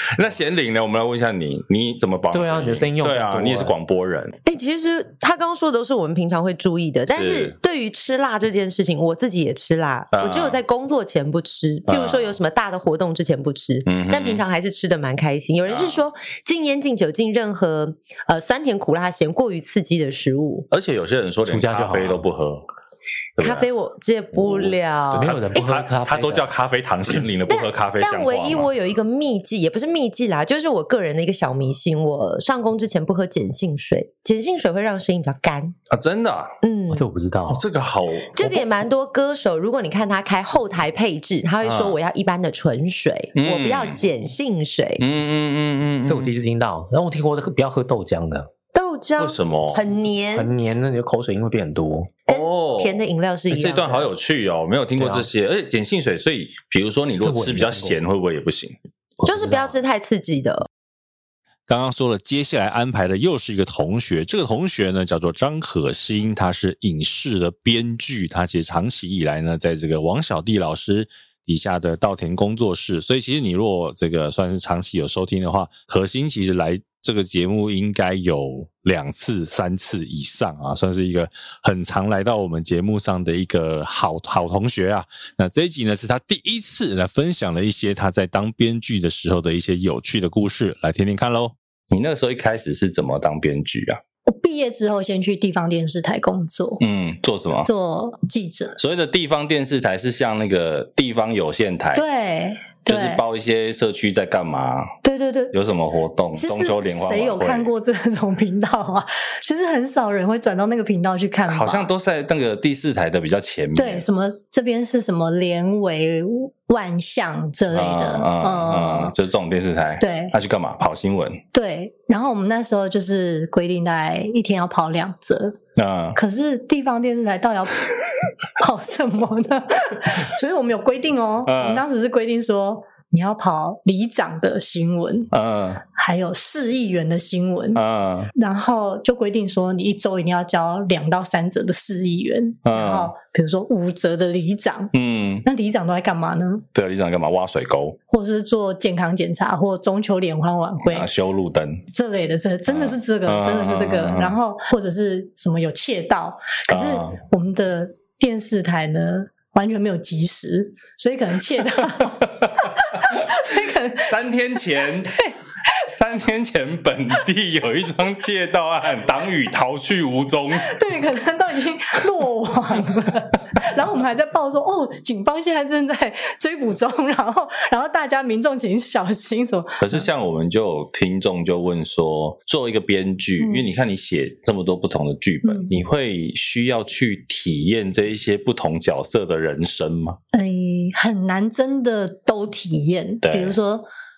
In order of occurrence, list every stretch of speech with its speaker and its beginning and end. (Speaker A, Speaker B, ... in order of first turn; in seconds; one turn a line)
Speaker A: 0.1-4.4
Speaker B: 2.3-3.7
Speaker C: 4.4-20.7
Speaker A: 7.1-7.5
Speaker A: 10.1-10.6
Speaker A: 11.9-12.3
Speaker A: 13.9-14.4
Speaker A: 15.6-16.0
Speaker A: 20.7-22.6
Speaker B: 21.4-22.3
Speaker A: 23.4-23.7
Speaker C: 23.4-25.4
Speaker A: 24.4-28.7
Speaker B: 25.1-26.5
Speaker C: 27.5-35.8
Speaker A: 35.9-36.5
Speaker C: 36.6-37.0
Speaker B: 36.9-37.6
Speaker A: 37.5-38.6
Speaker C: 38.3-45.0
Speaker A: 41.6-42.0
Speaker A: 43.4-44.0
Speaker A: 45.0-46.3
Speaker B: 46.0-48.5
Speaker C: 48.7-50.5
Speaker A: 49.2-49.8
Speaker B: 50.3-52.1
Speaker C: 52.3-54.1
Speaker A: 52.3-58.8
Speaker B: 55.0-55.3
Speaker B: 57.2-58.0
Speaker B: 59.2-59.8
Speaker C: 59.2-60.7
Speaker D: 61.7-91.5
Speaker A: 91.9-94.0
Speaker E: 94.3-96.8
Speaker A: 96.8-97.7
Speaker E: 97.6-98.8
Speaker A: 98.8-102.0
Speaker E: 101.9-103.2
Speaker A: 102.9-104.9
Speaker E: 105.0-105.5
Speaker A: 105.5-107.7
Speaker E: 106.3-111.9
Speaker A: 111.5-114.0
Speaker E: 113.8-119.1
Speaker A: 117.7-121.4
Speaker E: 120.0-120.4
Speaker E: 121.5-125.6
Speaker A: 125.8-126.2
Speaker E: 126.2-127.9
Speaker E: 128.6-135.3
Speaker A: 131.4-131.8
Speaker A: 135.3-135.8
Speaker E: 135.9-137.8
Speaker A: 137.8-138.3
Speaker E: 138.3-144.9
Speaker A: 142.6-143.1
Speaker A: 144.9-145.4
Speaker E: 145.4-146.6
Speaker A: 146.7-148.0
Speaker E: 148.1-151.1
Speaker A: 150.9-151.8
Speaker E: 151.9-164.2
Speaker A: 152.7-154.4
Speaker A: 156.7-157.2
Speaker A: 164.1-165.1
Speaker E: 164.8-165.3
Speaker A: 165.9-170.8
Speaker E: 170.6-180.1
Speaker A: 179.8-190.2
Speaker E: 183.4-183.7
Speaker E: 185.4-185.7
Speaker E: 190.3-193.9
Speaker A: 193.2-193.6